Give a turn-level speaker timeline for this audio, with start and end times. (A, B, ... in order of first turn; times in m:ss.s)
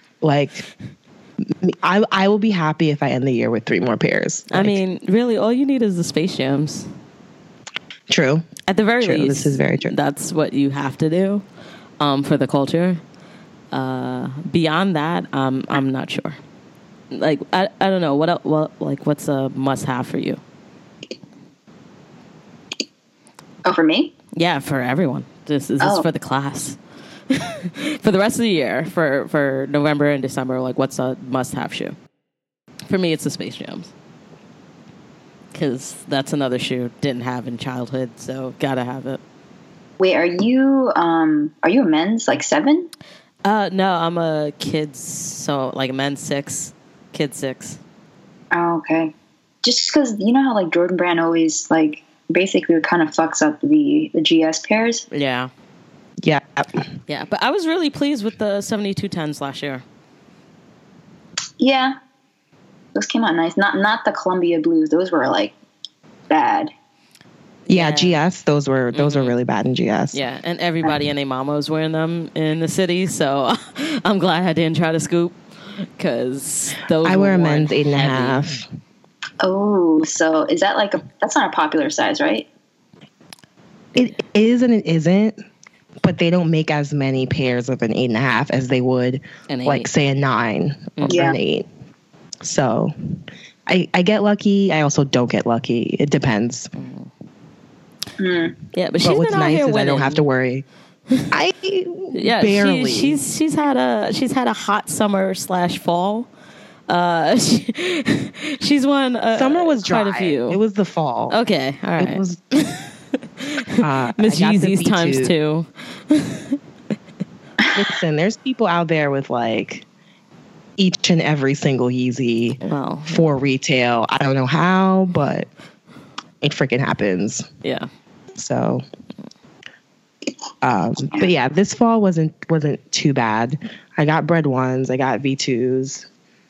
0:00.2-0:00.7 A
0:01.5-0:04.8 A
0:04.5-0:06.9 B
0:08.1-0:08.5 A
0:08.7-0:11.4 B
0:09.0-0:09.9 A
0:12.0-0:13.0 B
0:13.7-0:16.4 B
0:17.1-0:20.4 B
0:23.6-0:24.1 C
0:24.4-0:26.8 B
0:25.8-0:26.1 C
0:27.3-0:32.0 B
0:32.9-0:33.9 B
0:35.5-0:39.2 B
0:40.0-0:42.9 C
0:43.4-0:47.8 B
0:48.5-0:55.1 C
0:55.1-0:55.5 B
0:56.2-0:56.8 A
0:57.1-0:59.8 B
1:01.6-1:02.0 C
1:03.0-1:05.5 C
1:06.3-1:06.7 C
1:07.7-1:08.2 B
1:07.7-1:10.2 A
1:08.9-1:09.4 B
1:10.1-1:18.4 B
1:17.0-1:18.6 A
1:19.4-1:22.5 C
1:24.0-1:25.4 A
1:26.0-1:31.7 A
1:29.5-1:29.9 B
1:31.0-1:31.2 B
1:31.1-1:31.4 C
1:32.4-1:32.9 A
1:33.7-1:36.7 A
1:36.8-1:37.1 B
1:38.2-1:38.6 C
1:38.7-1:40.2 B
1:39.0-1:40.6 A
1:41.3-1:43.2 A
1:42.1-1:46.3 B
1:46.9-1:50.6 B
1:49.3-1:51.4 A
1:51.3-1:56.6 B
1:52.0-1:52.4 A
1:53.8-1:55.3 A
1:57.8-1:59.9 A
2:00.8-2:05.5 A
2:02.6-2:03.3 B
2:06.4-2:07.5 A
2:08.4-2:08.8 A
2:10.6-2:16.1 A